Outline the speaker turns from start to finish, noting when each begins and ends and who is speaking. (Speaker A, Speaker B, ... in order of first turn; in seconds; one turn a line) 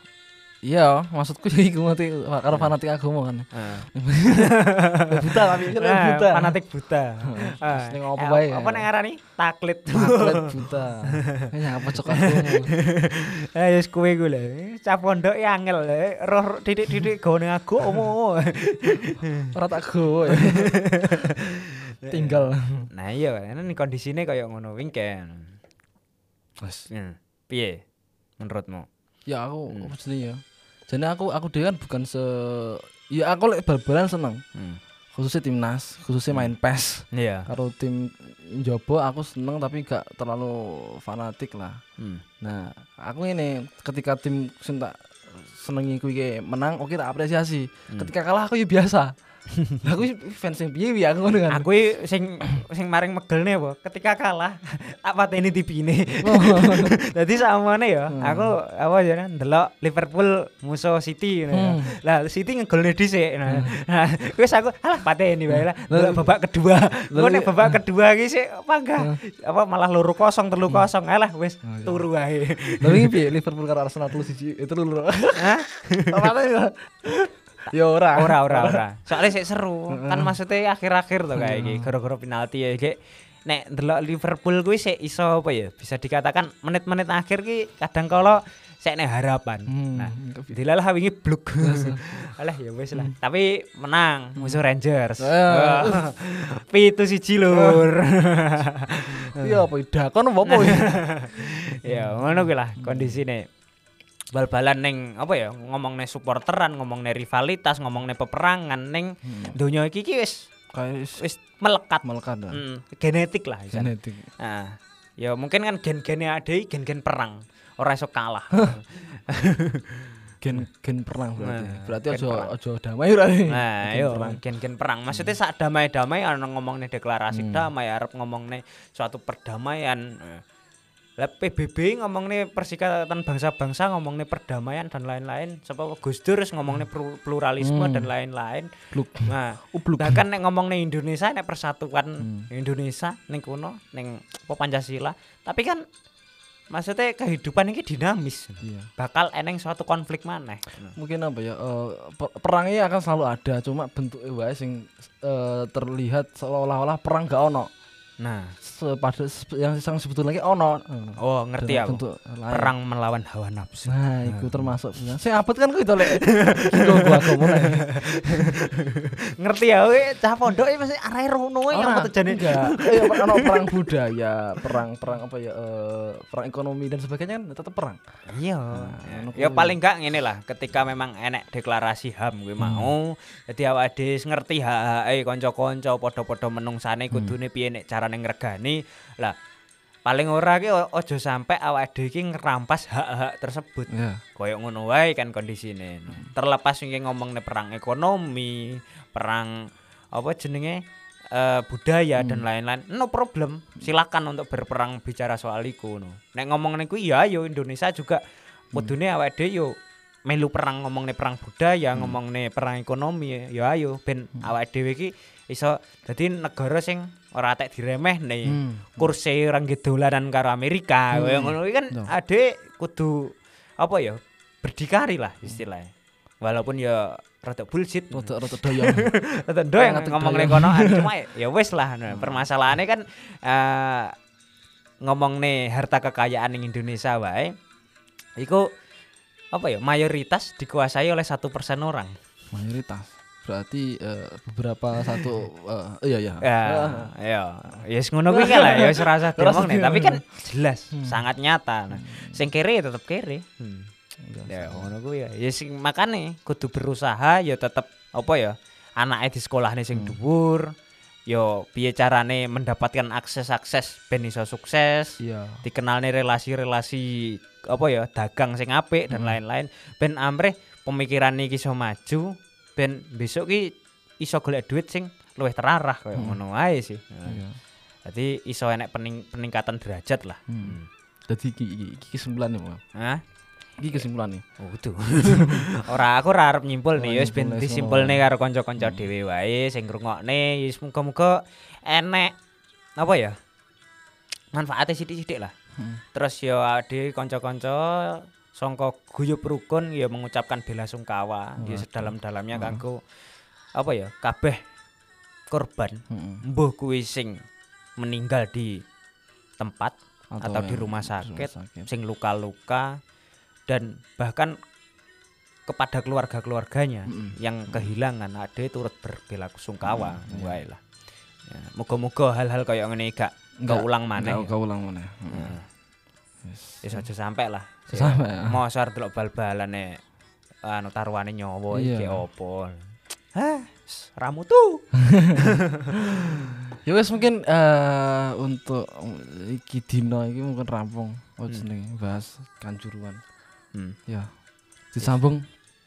Speaker A: 0.6-6.6
Speaker B: 3.5-11.5
Speaker A: 7.2-8.9
Speaker A: 9.9-12.7
Speaker B: 12.1-19.5
Speaker A: 19.5-21.3
Speaker B: 20.2-25.6
Speaker A: 22.1-22.9
Speaker A: 26.6-26.9
Speaker B: 26.9-27.8
Speaker B: 28.4-28.9
Speaker A: 29.3-34.4
Speaker B: 34.5-34.8
Speaker A: 35.1-41.8
Speaker B: 36.3-36.5
Speaker B: 37.1-37.5
Speaker B: 42.0-42.2
Speaker A: 42.4-49.1
Speaker B: 49.5-49.8
Speaker A: 49.8-51.7
Speaker B: 51.5-73.2
Speaker A: 56.2-57.0
Speaker A: 58.1-58.5
Speaker A: 61.5-61.9
Speaker A: 63.5-63.7
Speaker A: 65.5-66.2
Speaker A: 67.1-67.8
Speaker A: 71.6-72.1
Speaker A: 72.8-79.2
Speaker B: 75.4-76.2
Speaker B: 77.7-99.7
Speaker A: 79.9-80.3
Speaker A: 81.3-81.9
Speaker A: 89.7-90.5
Speaker A: 91.6-92.0
Speaker A: 95.2-96.1
Speaker A: 97.5-97.9
Speaker A: 99.3-101.0
Speaker B: 100.4-103.5
Speaker A: 101.8-103.2
Speaker B: 104.3-110.5
Speaker A: 109.2-109.6
Speaker A: 110.7-111.2
Speaker B: 111.2-120.6
Speaker A: 112.0-112.6
Speaker A: 113.7-114.3
Speaker A: 120.4-124.4
Speaker B: 121.4-122.5
Speaker B: 123.5-130.4
Speaker A: 127.3-127.7
Speaker B: 131.2-145.8
Speaker A: 137.6-138.1
Speaker A: 138.9-140.2
Speaker A: 142.2-142.5
Speaker B: 146.7-150.9
Speaker A: 148.6-148.9
Speaker A: 150.9-157.7
Speaker B: 158.2-158.5
Speaker A: 158.6-162.7
Speaker B: 161.2-164.8
Speaker A: 163.9-168.6
Speaker B: 166.0-173.9
Speaker A: 171.7-178.0
Speaker B: 178.3-189.3
Speaker A: 178.7-179.8
Speaker A: 182.6-182.9
Speaker B: 190.1-208.2
Speaker A: 193.9-194.2
Speaker A: 202.2-202.4
Speaker B: 208.7-209.7
Speaker B: 210.3-234.1
Speaker A: 218.4-219.1
Speaker A: 221.1-222.1
Speaker A: 228.1-229.1
Speaker A: 229.8-231.1
Speaker A: 232.1-232.5
Speaker B: 235.0-237.5
Speaker B: 238.4-238.7
Speaker B: 239.5-242.2
Speaker A: 242.5-247.1
Speaker B: 246.4-253.9
Speaker A: 248.3-250.2
Speaker A: 250.9-251.2
Speaker A: 251.9-252.4
Speaker A: 254.2-254.9
Speaker B: 254.5-260.7
Speaker B: 261.3-277.4
Speaker A: 265.2-265.6
Speaker A: 269.1-269.4
Speaker A: 277.3-277.6
Speaker B: 278.1-280.9
Speaker A: 280.5-282.8
Speaker B: 282.9-283.2
Speaker A: 283.8-284.4
Speaker B: 284.6-292.3
Speaker A: 285.2-285.7
Speaker A: 286.9-288.2
Speaker A: 288.8-289.1
Speaker B: 293.0-293.4
Speaker B: 294.5-295.5
Speaker A: 295.8-296.0
Speaker B: 296.1-303.0
Speaker A: 301.6-302.8
Speaker B: 303.7-304.6
Speaker B: 305.5-307.4
Speaker A: 306.1-306.4
Speaker B: 308.0-308.8
Speaker B: 309.6-313.0
Speaker A: 310.3-311.9
Speaker B: 313.7-314.6
Speaker B: 315.7-320.8
Speaker A: 317.1-317.9
Speaker A: 319.8-320.6
Speaker B: 321.4-324.5
Speaker A: 323.6-325.6
Speaker B: 325.3-325.6
Speaker A: 326.4-327.0
Speaker B: 326.8-330.0
Speaker A: 327.9-328.6
Speaker B: 330.6-336.4
Speaker A: 331.7-332.2
Speaker A: 335.0-343.2
Speaker A: 344.9-345.5